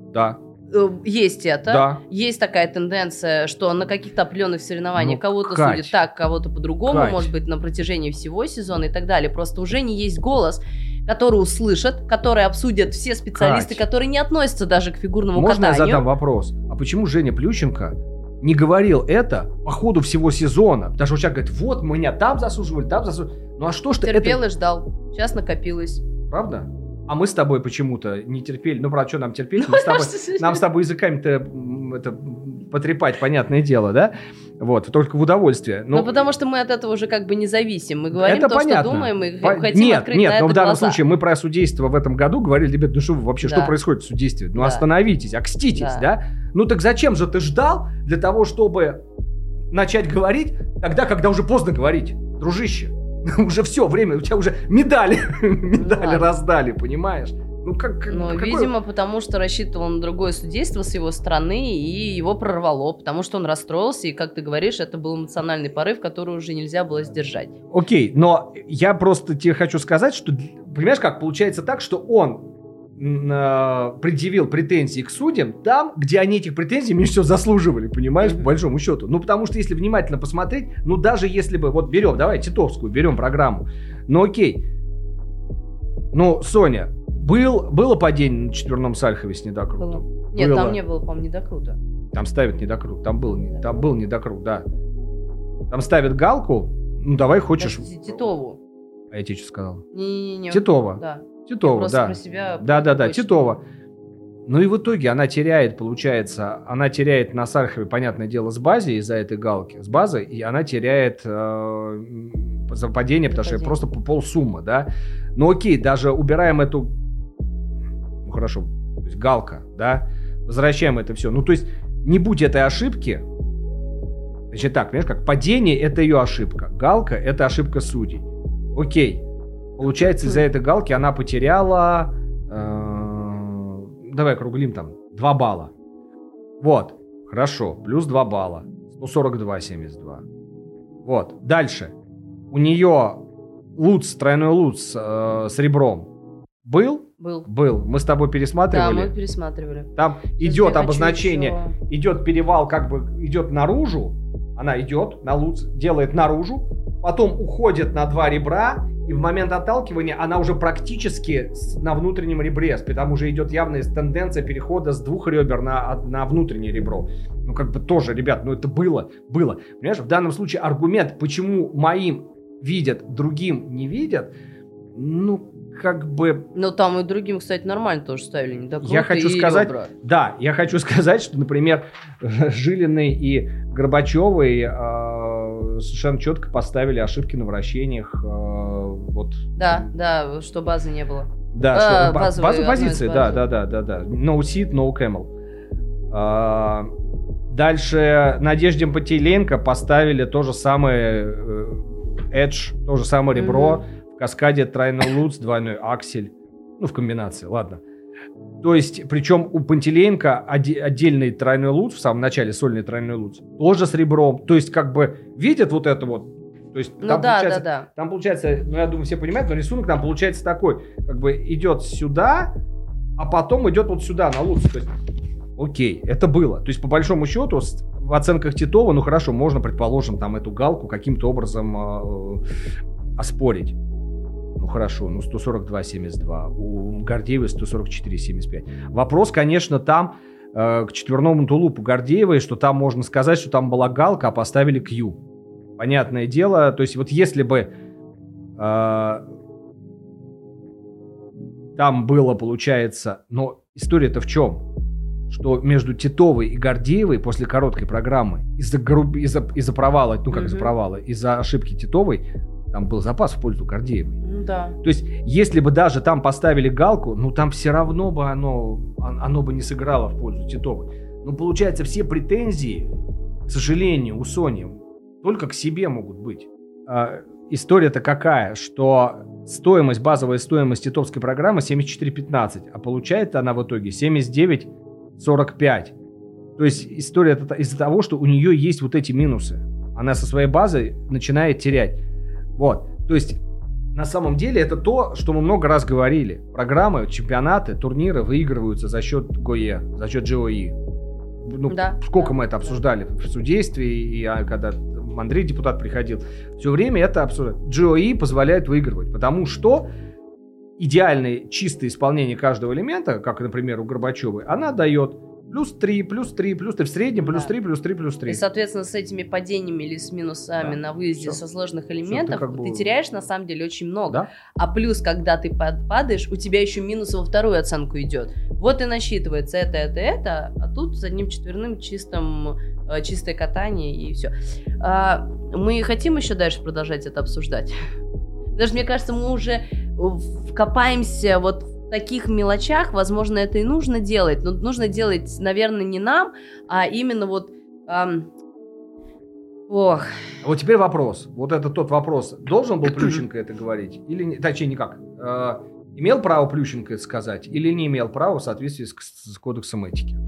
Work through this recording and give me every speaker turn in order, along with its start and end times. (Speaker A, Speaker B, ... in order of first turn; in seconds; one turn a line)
Speaker A: 0.1-0.4
Speaker B: 0.7-16.1
Speaker A: 1.7-2.0
Speaker A: 5.0-6.0
Speaker A: 6.9-7.3
Speaker A: 13.3-13.8
Speaker A: 15.3-24.4
Speaker B: 24.0-26.1
Speaker A: 26.3-36.2
Speaker B: 29.6-30.6
Speaker B: 35.9-41.0
Speaker A: 38.1-49.0
Speaker B: 43.4-43.7
Speaker B: 44.6-44.9
Speaker B: 45.8-46.1
Speaker A: 49.7-58.7
Speaker B: 55.8-56.3
Speaker B: 58.1-67.5
Speaker A: 67.7-84.7
Speaker A: 86.1-90.8
Speaker B: 89.8-91.8
Speaker A: 92.1-94.7
Speaker A: 95.7-98.2
Speaker B: 97.6-98.6
Speaker A: 99.1-99.9
Speaker B: 99.9-103.5
Speaker A: 100.5-103.6
Speaker A: 104.5-116.9
Speaker B: 113.3-113.8
Speaker A: 118.2-123.2
Speaker A: 124.5-129.2
Speaker A: 129.8-135.7
Speaker B: 130.0-130.4
Speaker A: 136.6-140.2
Speaker A: 141.1-141.9
Speaker A: 142.5-143.3
Speaker A: 143.8-146.1
Speaker A: 146.6-149.1
Speaker B: 147.2-147.5
Speaker B: 148.7-151.8
Speaker A: 150.0-174.3
Speaker A: 174.9-176.5
Speaker B: 176.6-179.9
Speaker A: 178.8-189.9
Speaker B: 189.6-193.4
Speaker A: 191.5-195.3
Speaker A: 196.1-196.9
Speaker A: 197.5-207.8
Speaker B: 203.3-203.8
Speaker A: 208.6-222.5
Speaker B: 217.0-217.9
Speaker A: 223.2-224.9
Speaker A: 225.6-232.4
Speaker A: 233.2-233.8
Speaker A: 234.6-245.2
Speaker A: 245.8-247.7
Speaker A: 248.6-249.2
Speaker A: 251.8-254.7
Speaker A: 255.3-264.2
Speaker B: 260.3-260.7
Speaker B: 264.2-264.8
Speaker A: 264.8-272.9
Speaker A: 273.5-285.9
Speaker A: 286.6-292.0
Speaker A: 292.6-293.4
Speaker A: 293.9-300.8
Speaker A: 301.4-309.9
Speaker B: 301.7-302.3
Speaker A: 310.8-318.4
Speaker B: 317.2-317.5
Speaker B: 318.3-337.8
Speaker A: 320.6-321.4
Speaker A: 322.1-322.9
Speaker B: 338.6-348.3
Speaker B: 349.7-350.4
Speaker A: 350.4-360.2